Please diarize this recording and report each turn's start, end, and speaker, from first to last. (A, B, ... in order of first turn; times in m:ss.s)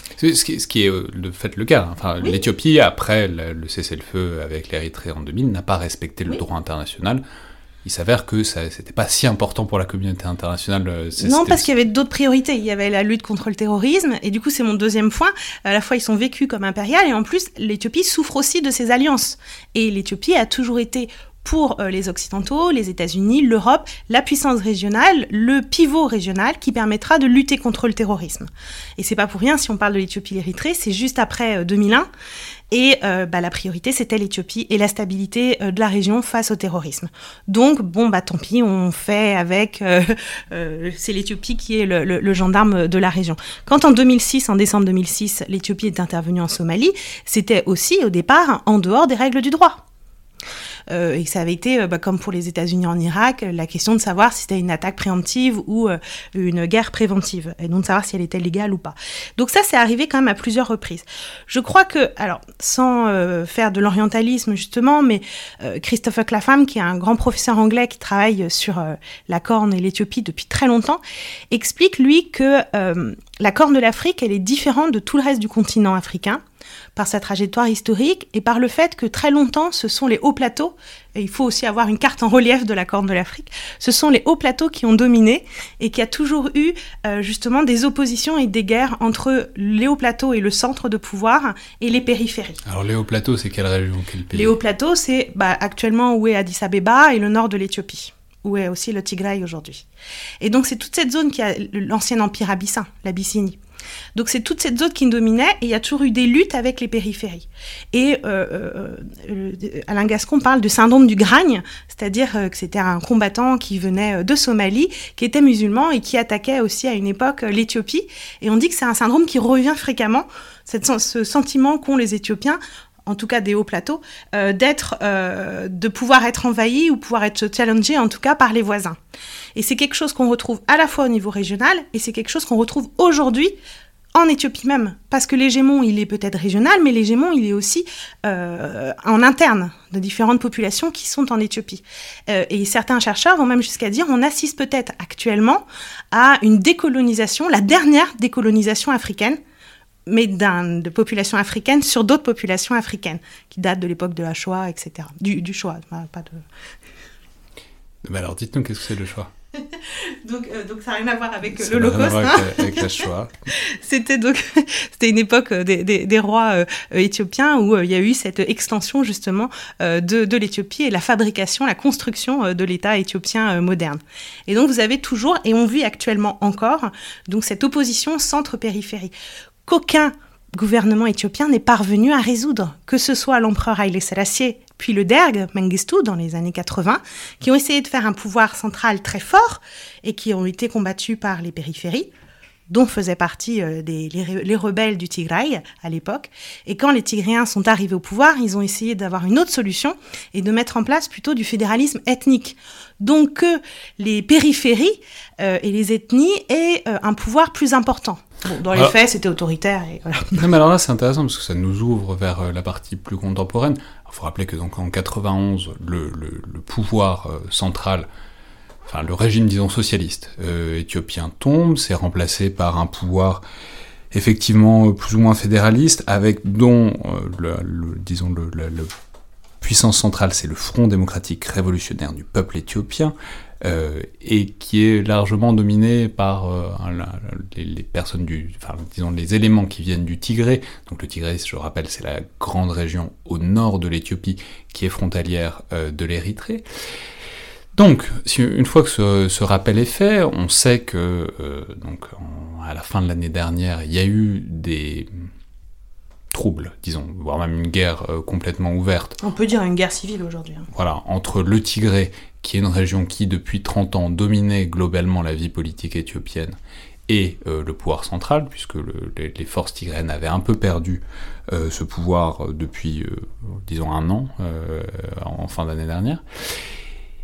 0:00.2-0:07.2 A
0:07.8-0:11.7 A
0:11.2-0:32.1 B
0:32.7-0:49.8 B
0:50.9-1:16.4 B
1:16.9-1:32.6 B
1:32.6-1:34.5 A
1:34.3-1:39.8 B
1:40.4-1:43.6 B
1:44.1-2:09.0 B
2:09.5-2:13.5 B
2:14.1-2:29.4 B
2:30.0-2:36.4 B
2:38.0-2:39.3 A
2:39.5-2:42.9 B
2:41.5-2:43.3 A
2:43.5-2:59.1 B
2:59.6-3:12.1 B
3:12.7-3:30.4 B
3:30.3-3:38.1 A
3:38.8-3:43.4 A
3:44.1-3:48.9 A
3:49.6-4:06.6 A
4:07.7-4:15.1 A
4:16.3-4:19.2 A
4:19.2-4:20.7 B
4:20.7-4:26.6 A
4:27.1-4:36.2 A